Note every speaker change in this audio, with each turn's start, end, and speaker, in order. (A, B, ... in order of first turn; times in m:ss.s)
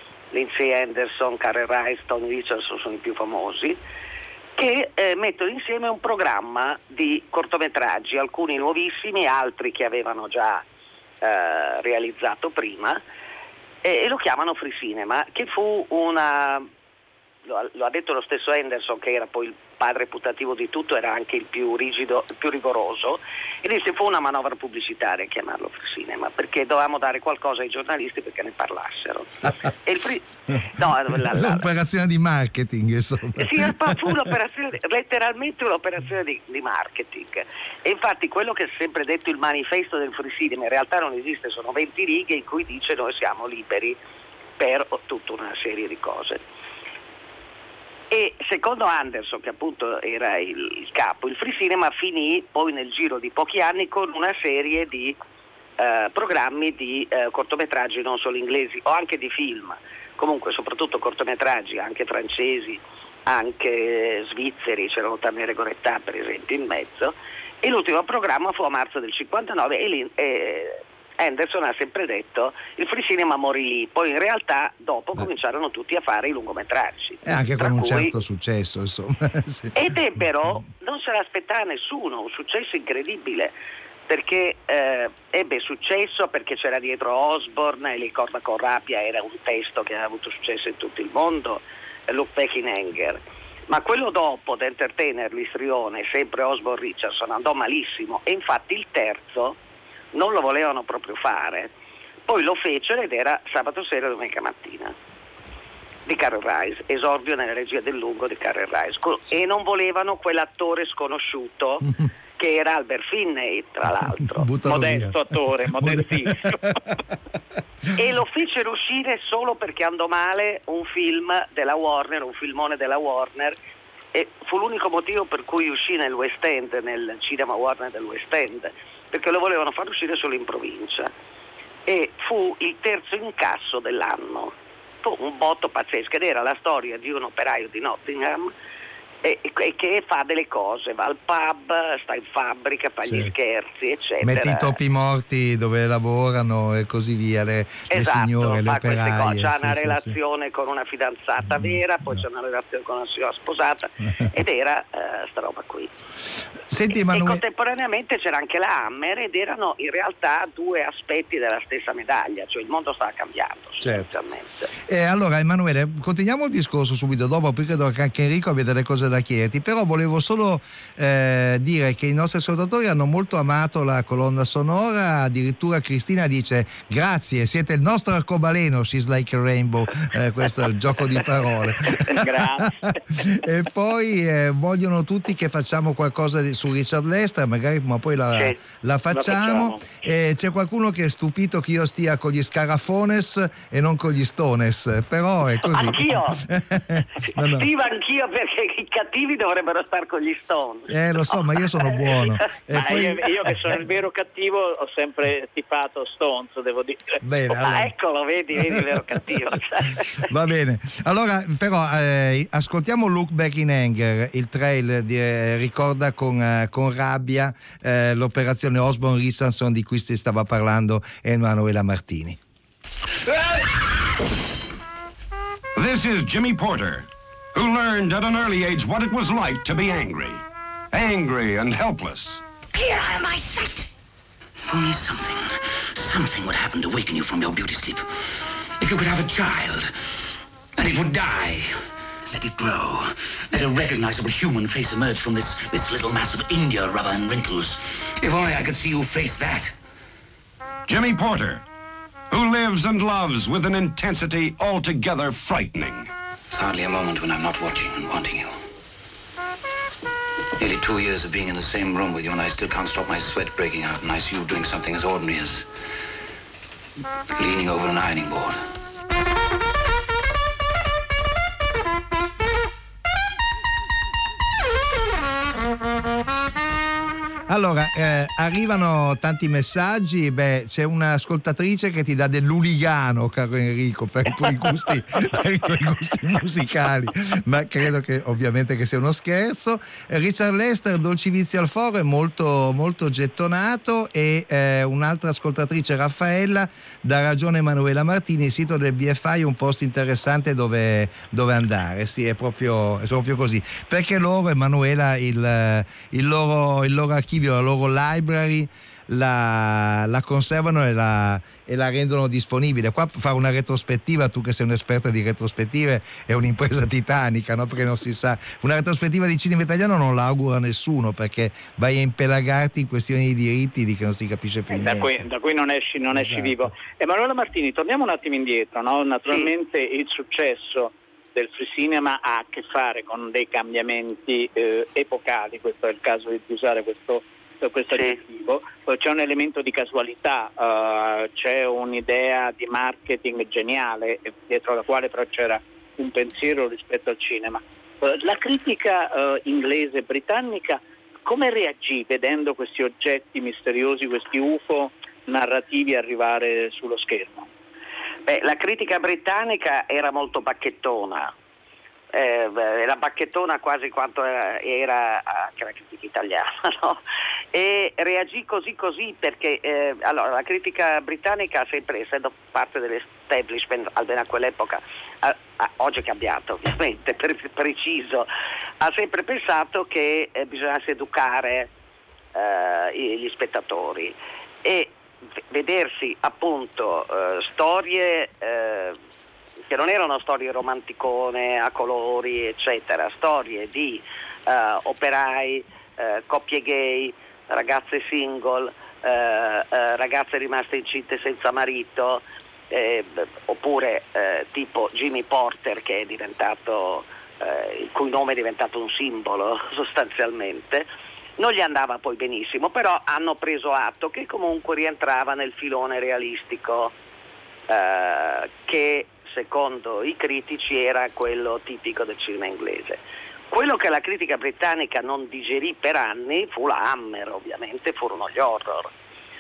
0:00.3-0:03.8 A
0:04.6-0:10.6 A
0:11.2-0:13.0 A
0:13.8-0:16.7 A
0:17.5-0:31.7 A
0:31.2-0:34.2 B
0:33.4-0:44.0 A
0:44.6-0:46.4 A
0:48.1-0:55.2 A
0:55.8-1:18.1 A
1:17.2-1:20.3 B
1:19.8-1:23.5 A
1:24.1-1:39.6 A
1:40.1-1:41.7 A
1:42.3-1:45.0 A
1:46.1-1:51.9 A
1:52.4-1:54.5 A
1:54.3-1:55.2 B
1:54.7-1:56.6 C
1:55.7-1:56.8 B
1:58.0-2:03.6 A
2:04.1-2:11.1 A
2:11.9-2:18.5 A
2:19.2-2:24.8 A
2:23.1-2:23.3 B
2:24.2-2:30.2 B
2:27.9-2:35.9 A
2:36.7-2:37.4 B
2:36.9-2:44.7 A
2:43.8-2:44.1 B
2:44.8-3:17.7 B
3:02.1-3:03.0 C
3:08.3-3:08.6 A
3:09.1-3:09.8 C
3:15.6-3:16.4 A
3:17.4-3:22.4 A
3:20.9-3:23.3 B
3:22.7-3:27.2 C
3:27.2-3:27.9 B
3:27.5-3:30.3 A
3:28.7-3:29.0 B
3:30.2-3:42.4 B
3:45.8-3:52.4 D
3:52.8-3:53.7 E
3:54.7-3:58.1 E
3:58.8-4:00.2 E
4:00.8-4:01.7 E
4:02.3-4:09.7 E
4:10.9-4:11.6 D
4:12.3-4:16.1 D
4:16.5-4:18.5 E
4:20.6-4:25.7 E
4:27.4-4:28.6 E
4:37.5-5:25.2 B
5:24.7-5:57.5 C
5:26.1-5:26.7 B
5:37.9-5:38.2 A
5:58.3-6:01.3 A
6:02.1-6:07.0 A
6:07.5-6:18.3 A
6:18.8-6:21.7 A
6:22.4-6:25.0 A
6:25.5-6:29.0 A
6:29.7-6:50.9 A
6:51.4-6:56.9 A
6:57.7-7:08.9 A